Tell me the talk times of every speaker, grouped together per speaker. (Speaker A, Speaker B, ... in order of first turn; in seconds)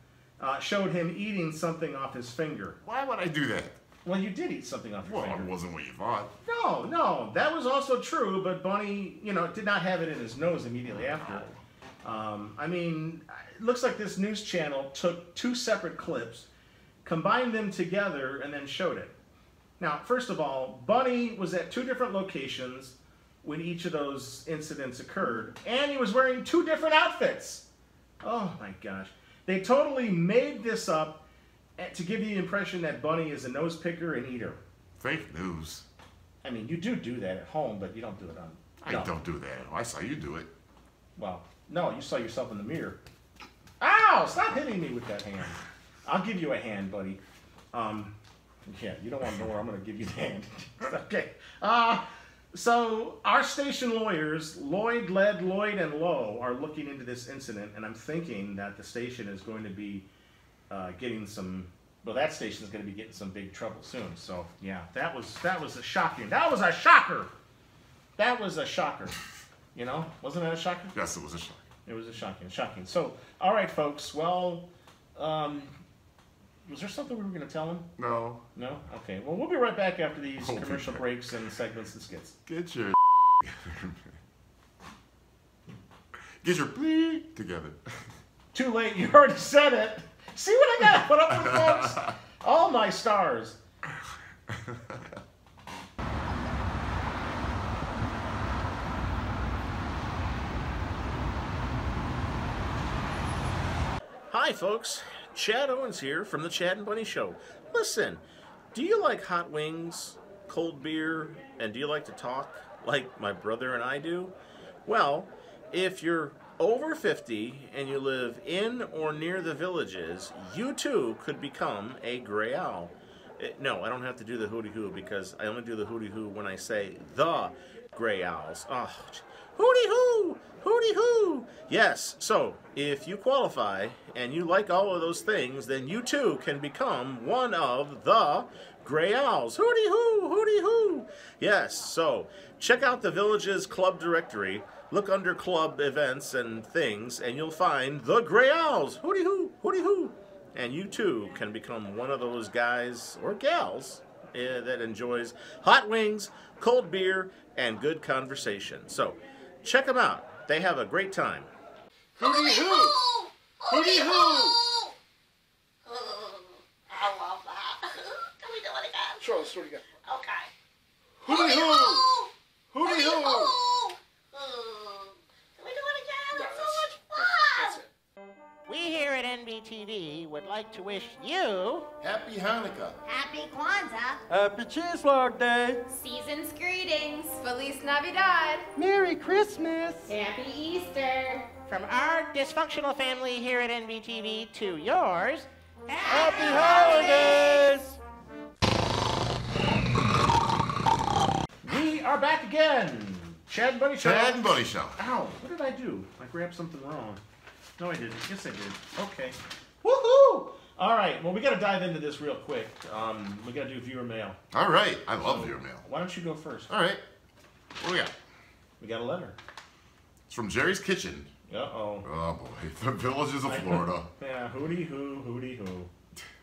Speaker A: 0.4-2.8, 4.0-5.5, 6.4-16.5, 17.0-19.1, 19.8-27.6, 28.2-31.2, 31.8-34.6, 36.4-39.1, 41.2-43.0, 43.8-47.2, 47.7-48.1, 48.6-60.1, 60.7-67.3, 68.2-69.2, 69.7-71.0, 71.8-75.7, 76.7-77.9, 78.5-82.3, 88.5-93.6, 104.3-108.2, 108.7-114.3, 114.8-161.5, 201.6-207.2, 207.8-214.4, 215.2-216.7, 218.8-219.3, 221.5-222.1, 223.5-225.9
Speaker B: 2.8-3.8, 5.0-6.3, 10.9-11.5, 35.0-35.8, 38.8-40.5, 70.9-71.6, 78.0-78.4, 80.4-81.0, 82.5-84.0, 86.4-88.1, 91.3-92.1, 94.5-95.1, 182.0-183.0, 204.0-204.9, 214.5-215.8, 216.7-217.0, 217.8-218.1, 220.3-221.3, 222.0-224.1
Speaker C: 162.2-163.0, 163.6-164.6, 169.2-169.8, 171.2-172.0, 172.7-173.6, 176.3-177.9
Speaker D: 162.2-164.9, 165.8-169.5, 170.0-170.5, 171.2-177.8
Speaker E: 178.7-181.9, 188.8-190.1, 191.7-198.0
Speaker F: 183.1-184.2, 185.9-188.7, 190.1-191.5, 195.9-197.3
Speaker G: 184.3-185.8, 188.9-189.4, 196.1-197.8